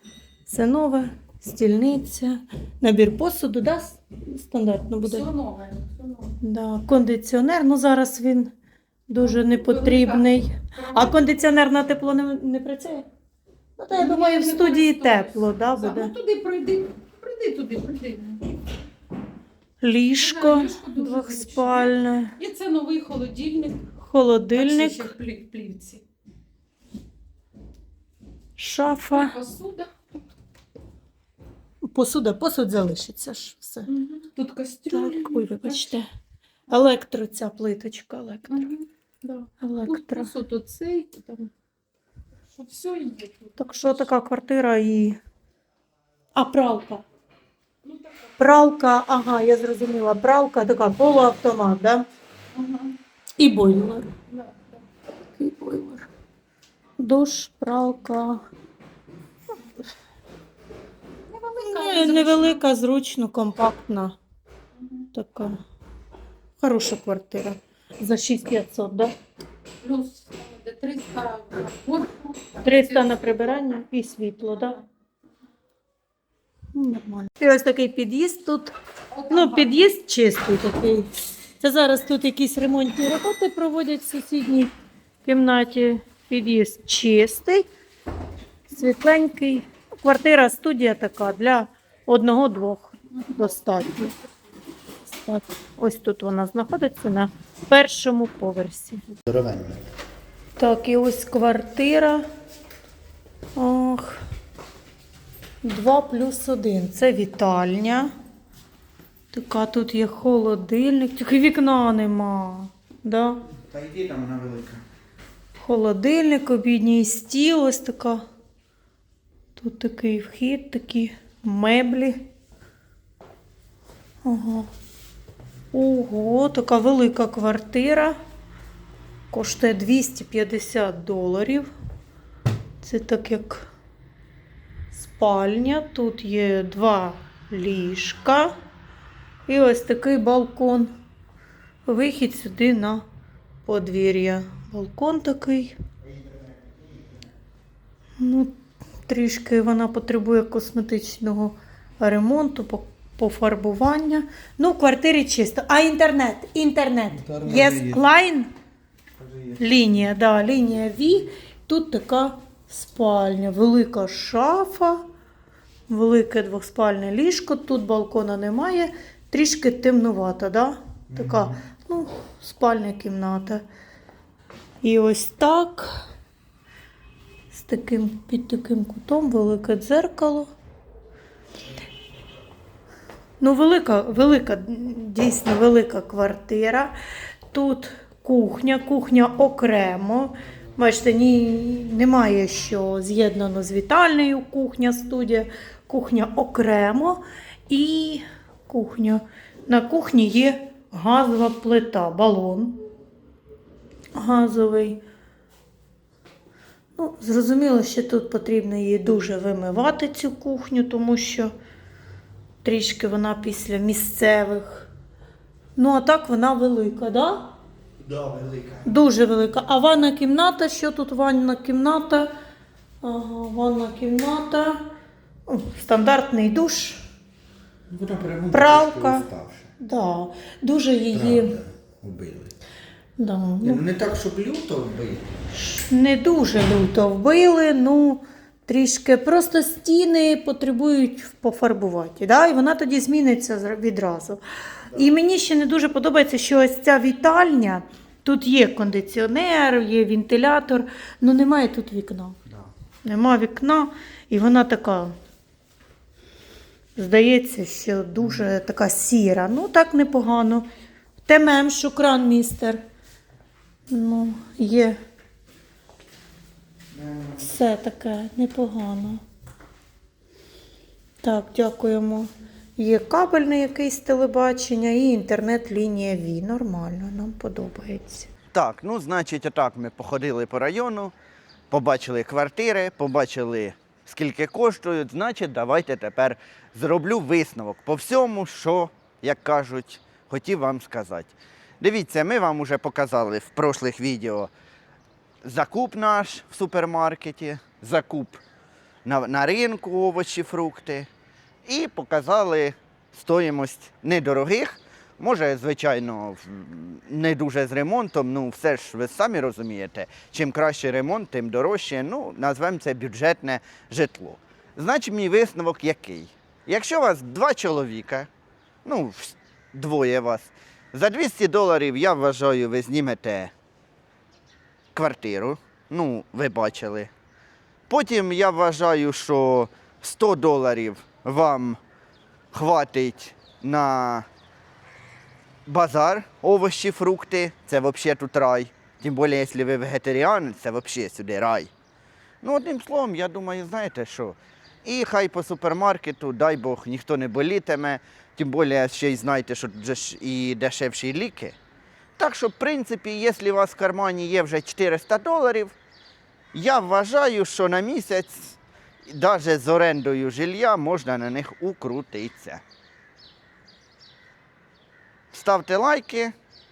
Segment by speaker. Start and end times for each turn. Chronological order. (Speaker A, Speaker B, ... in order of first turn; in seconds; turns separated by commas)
Speaker A: 0.5-5.3, Speaker B: 5.0-6.3, Speaker A: 6.4-8.5, Speaker A: 9.1-13.1, Speaker B: 9.7-10.2, Speaker B: 10.7-11.1, Speaker A: 13.8-16.1, Speaker B: 13.9-18.4, Speaker A: 19.8-22.4, Speaker B: 20.2-23.8, Speaker A: 24.0-25.1, Speaker B: 24.6-26.0, Speaker A: 28.6-29.4, Speaker B: 29.1-29.9, Speaker A: 31.9-33.9, Speaker B: 33.9-35.7, Speaker A: 34.9-36.0, Speaker A: 36.7-38.7, Speaker B: 38.5-41.5, Speaker A: 39.6-40.3, Speaker B: 42.5-43.5, Speaker A: 43.6-45.2, Speaker A: 46.3-47.0, Speaker A: 48.4-52.1, Speaker B: 52.5-52.9, Speaker A: 53.4-54.1, Speaker B: 54.3-54.6, Speaker A: 55.4-56.1, Speaker A: 57.0-58.4, Speaker B: 61.3-62.6, Speaker A: 61.6-64.2, Speaker A: 65.1-65.6, Speaker A: 66.6-69.1, Speaker B: 69.8-72.8, Speaker A: 72.6-74.8, Speaker A: 76.7-78.7, Speaker B: 79.1-79.8, Speaker A: 79.3-84.7, Speaker A: 85.2-87.7, Speaker A: 88.7-94.1, Speaker A: 95.1-99.0, Speaker C: 99.3-99.8, Speaker A: 100.5-102.2, Speaker A: 103.5-104.2, Speaker A: 105.6-108.1, Speaker A: 109.3-113.4, Speaker C: 113.7-114.8, Speaker A: 115.6-118.2, Speaker A: 119.5-122.3, Speaker A: 124.2-124.7, Speaker A: 125.7-128.1, Speaker A: 129.3-131.7, Speaker A: 132.8-133.7, Speaker A: 134.9-138.5, Speaker A: 139.5-140.9, Speaker A: 141.8-143.0, Speaker A: 143.7-145.7, Speaker A: 148.2-148.5, Speaker A: 149.1-158.5, Speaker A: 159.6-165.0, Speaker A: 165.9-173.6, Speaker A: 174.8-175.9, Speaker A: 177.5-180.5, Speaker A: 183.4-186.9, Speaker A: 187.5-202.8, Speaker A: 204.2-205.0, Speaker A: 206.9-211.5, Speaker A: 212.6-214.9, Speaker A: 215.8-217.5, Speaker C: 218.1-218.8, Speaker A: 218.8-222.3, Speaker A: 223.0-224.8, Speaker A: 225.5-227.0, Speaker C: 227.9-229.7, Speaker A: 228.5-229.3, Speaker A: 229.8-231.6, Speaker C: 231.1-232.5, Speaker A: 233.2-233.8, Speaker C: 233.6-235.2, Speaker A: 235.5-244.4, Speaker A: 244.9-252.4, Speaker A: 253.0-255.1, Speaker A: 256.9-260.6, Speaker A: 261.2-262.8, Speaker A: 263.9-264.9, Speaker A: 267.4-269.2, Speaker A: 271.2-278.3, Speaker C: 278.5-281.1, Speaker C: 281.7-294.5, Speaker C: 295.4-298.4, Speaker C: 299.0-301.1, Speaker C: 301.6-318.3, Speaker C: 318.8-323.5, Speaker C: 324.9-327.1, Speaker C: 327.9-331.8, Speaker C: 332.5-334.2, Speaker C: 335.7-341.7, Speaker C: 342.4-351.6, Speaker C: 352.2-355.7, Speaker C: 356.5-358.6, Speaker C: 359.1-362.6, Speaker C: 365.3-366.3